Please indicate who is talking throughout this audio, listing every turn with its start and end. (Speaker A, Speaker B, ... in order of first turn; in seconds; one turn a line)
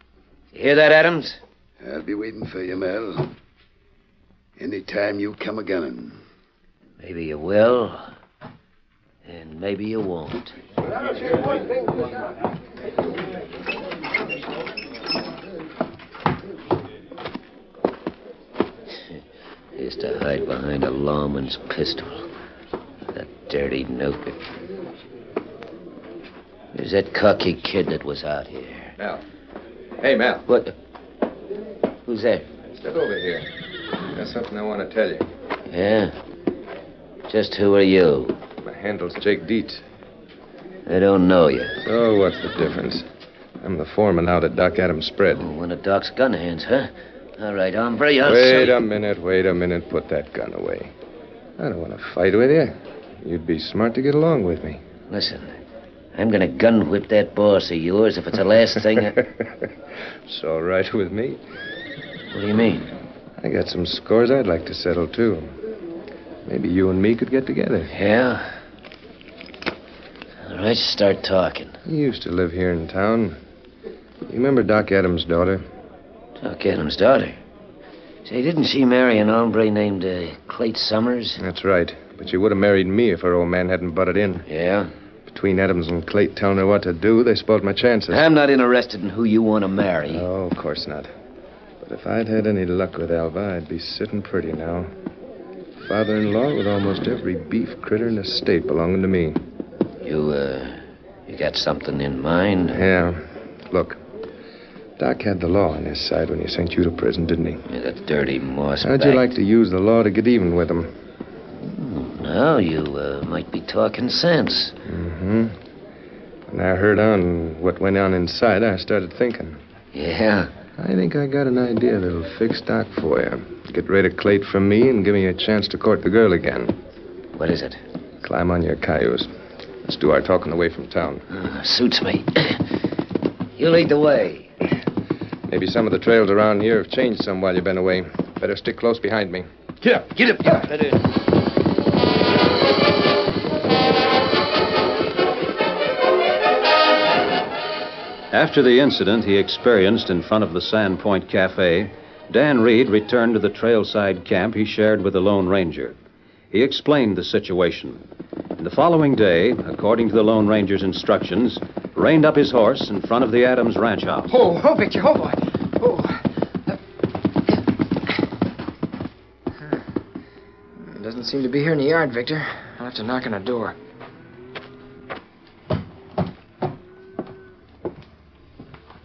Speaker A: 0.5-1.4
Speaker B: 1.8-3.3
Speaker B: 4.6-6.2
Speaker A: 7.0-8.1
Speaker A: 9.2-10.5
Speaker A: 19.7-22.3
Speaker A: 23.1-24.4
Speaker A: 26.7-28.9
Speaker C: 30.0-30.4
Speaker A: 30.5-30.7
Speaker A: 32.0-32.5
Speaker C: 32.7-33.5
Speaker C: 34.1-35.2
Speaker A: 35.7-36.1
Speaker A: 37.3-38.4
Speaker C: 38.6-39.8
Speaker A: 40.9-41.8
Speaker C: 41.8-43.1
Speaker C: 43.6-45.5
Speaker A: 45.4-48.8
Speaker C: 48.2-50.9
Speaker C: 51.6-54.8
Speaker A: 55.1-55.5
Speaker A: 56.1-59.2
Speaker C: 58.8-59.7
Speaker C: 60.3-61.4
Speaker A: 62.3-62.9
Speaker C: 63.4-65.5
Speaker C: 66.4-67.9
Speaker A: 67.9-68.5
Speaker A: 70.4-71.8
Speaker C: 71.8-73.4
Speaker C: 74.3-75.6
Speaker A: 76.4-77.4
Speaker A: 78.2-81.4
Speaker C: 81.4-84.4
Speaker A: 84.5-84.9
Speaker C: 85.3-88.2
Speaker A: 88.1-90.2
Speaker C: 90.1-91.1
Speaker C: 91.8-94.9
Speaker C: 95.8-99.4
Speaker A: 100.0-102.8
Speaker C: 102.7-104.0
Speaker C: 105.0-107.6
Speaker A: 107.7-109.3
Speaker C: 108.8-110.9
Speaker A: 111.6-114.7
Speaker C: 114.8-115.5
Speaker C: 116.5-119.6
Speaker A: 119.9-120.5
Speaker C: 120.8-126.7
Speaker A: 127.3-127.8
Speaker C: 128.2-129.3
Speaker C: 129.9-131.2
Speaker A: 131.3-132.6
Speaker A: 133.6-134.5
Speaker C: 135.5-140.1
Speaker A: 140.1-141.0
Speaker D: 148.3-155.9
Speaker D: 156.5-158.0
Speaker D: 158.6-164.4
Speaker E: 164.3-166.7
Speaker E: 170.8-173.7